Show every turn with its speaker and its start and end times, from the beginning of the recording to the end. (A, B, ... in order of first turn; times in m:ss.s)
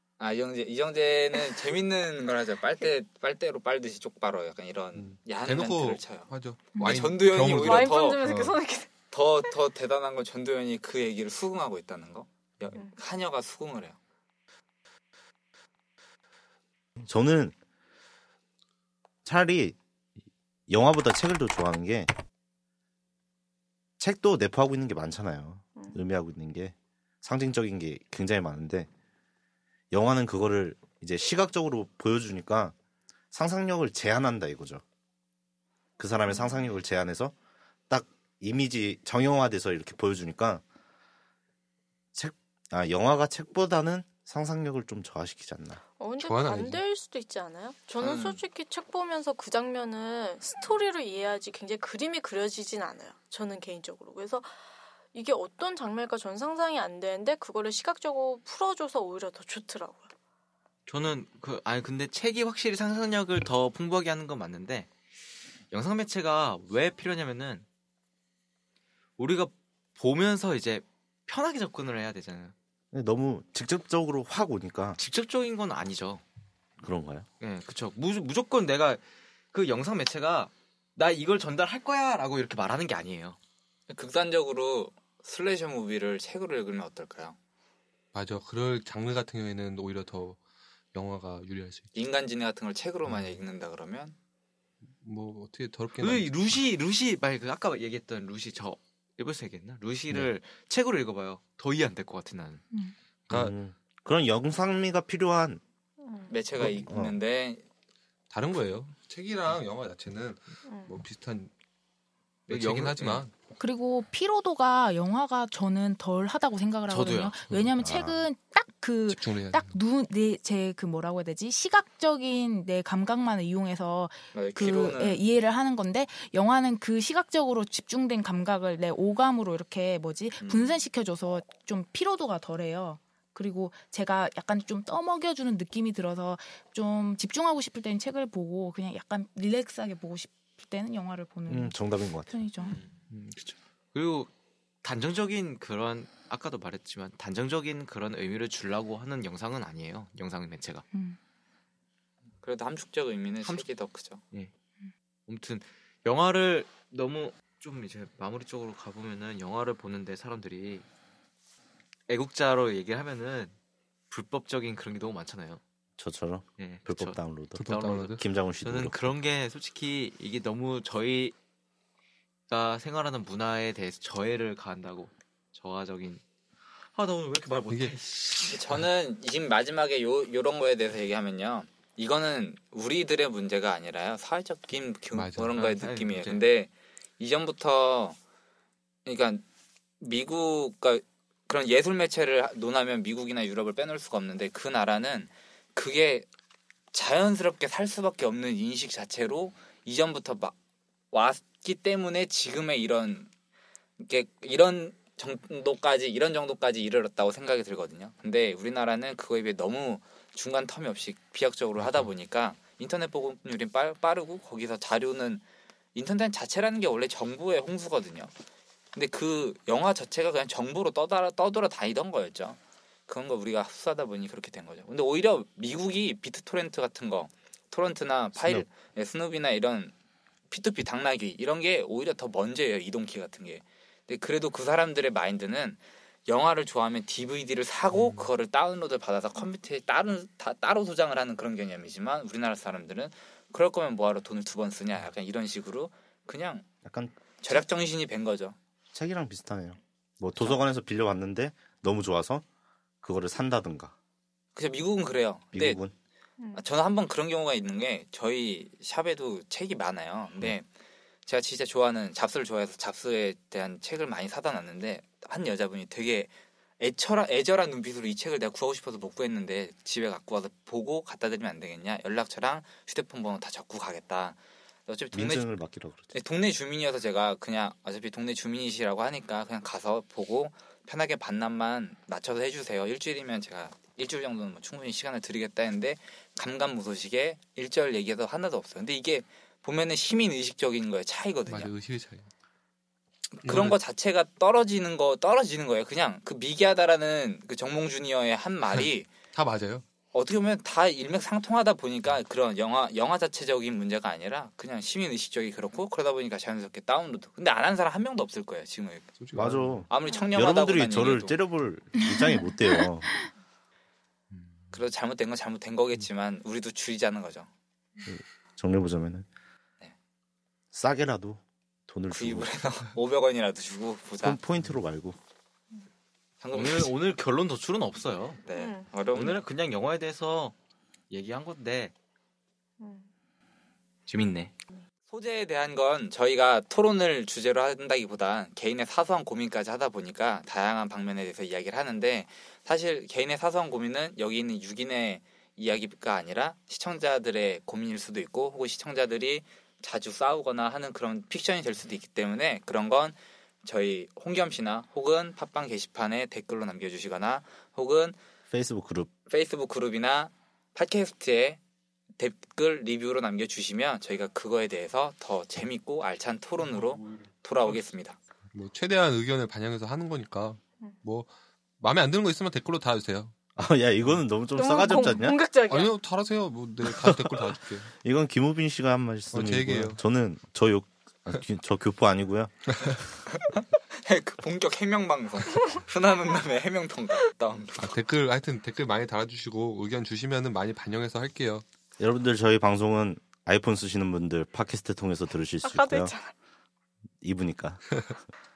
0:00.2-0:08.2 A
0:05.0-0:08.6 B
0:06.7-0:07.1 C
0:07.4-0:08.9 D
0:09.1-0:14.0 A
0:17.0-0:17.6 E
0:19.2-0:19.8 E
0:20.7-0:22.1 E
0:24.0-0:28.9 E
0:25.8-0:26.0 D
0:29.9-0:32.7 E
0:33.3-0:34.8 E
0:36.0-0:37.3 E
0:36.3-0:36.6 D
0:37.9-0:40.6 E
0:42.1-0:45.8 E
0:46.0-0:54.6 D
0:46.2-0:46.8 B
0:48.0-0:48.4 A
0:55.1-1:00.1 D
1:00.9-1:04.9 F
1:05.7-1:07.6 F
1:09.2-1:12.5 F
1:12.9-1:15.0 E
1:15.0-1:16.2 F
1:16.8-1:17.3 E
1:17.4-1:23.4 F
1:23.9-1:27.4 A
1:28.1-1:30.4 B
1:30.9-1:31.9 B
1:31.9-1:34.2 A
1:33.1-1:33.4 B
1:35.0-1:36.6 B
1:36.0-1:42.6 F
1:43.3-1:43.5 B
1:43.3-1:45.6 E
1:46.0-1:46.4 D
1:46.3-1:47.6 A
1:46.6-1:46.9 B
1:46.7-1:47.2 E
1:48.3-1:51.5 B
1:50.7-1:51.0 D
1:52.5-1:53.3 F
1:52.5-1:53.3 B
1:53.6-2:22.8 C
1:56.9-1:57.4 F
1:57.8-1:58.3 E
1:59.1-1:59.7 B
2:04.3-2:05.2 A
2:10.4-2:10.8 A
2:21.5-2:22.4 E
2:22.6-2:22.9 A
2:23.1-2:24.3 F
2:24.8-2:30.8 F
2:30.9-2:31.2 C
2:32.4-2:34.2 A
2:35.3-2:40.9 F
2:42.1-2:43.5 F
2:44.1-2:45.6 F
2:46.0-2:49.1 E
2:46.6-2:51.4 F
2:47.6-2:48.2 B
2:52.5-2:56.2 F
2:56.9-2:58.6 F
2:57.7-2:58.0 B
2:58.5-3:08.2 A
3:05.1-3:05.6 B
3:05.6-3:06.4 F
3:09.1-3:09.4 A
3:10.0-3:16.3 A
3:16.9-3:20.6 A
3:21.1-3:23.3 A
3:24.0-3:35.4 A
3:31.8-3:32.1 B
3:36.0-3:38.3 A
3:38.9-3:49.9 A
3:48.4-3:48.7 E
3:50.5-4:06.7 A
4:06.8-4:07.6 E
4:07.4-4:08.6 A
4:08.9-4:12.4 E
4:13.0-4:13.9 E
4:14.6-4:15.8 A
4:15.5-4:15.9 E
4:16.4-4:16.6 D
4:16.6-4:20.7 A
4:21.3-4:35.5 A
4:35.1-4:36.1 E
4:36.1-4:51.7 A
4:51.5-4:52.3 B
4:53.3-4:59.2 A
4:53.4-4:53.8 B
4:58.7-4:59.8 B
5:00.1-5:09.2 A
5:09.2-5:09.9 B
5:09.3-5:13.1 E
5:09.9-5:11.4 A
5:12.0-5:12.5 C
5:14.3-5:14.7 B
5:14.7-5:17.5 A
5:18.1-5:19.3 E
5:20.7-5:22.5 E
5:22.1-5:24.4 A
5:24.2-5:25.2 E
5:26.4-5:26.9 A
5:26.5-5:28.4 F
5:28.4-5:29.4 A
5:28.5-5:28.9 D
5:29.1-5:30.6 F
5:31.1-5:31.9 F
5:32.8-5:33.1 D
5:34.1-5:34.6 F
5:35.1-5:58.2 A
5:58.5-5:59.1 E
5:59.3-6:01.6 A
6:02.2-6:08.2 A
6:06.7-6:07.8 B
6:08.5-6:13.3 B
6:13.6-6:15.4 E
6:14.5-6:15.9 D
6:15.7-6:17.9 B
6:16.8-6:23.1 E
6:19.3-6:20.0 B
6:23.3-6:28.0 A
6:27.8-6:31.6 B
6:32.0-6:36.2 E
6:35.6-6:36.3 D
6:37.2-6:37.9 E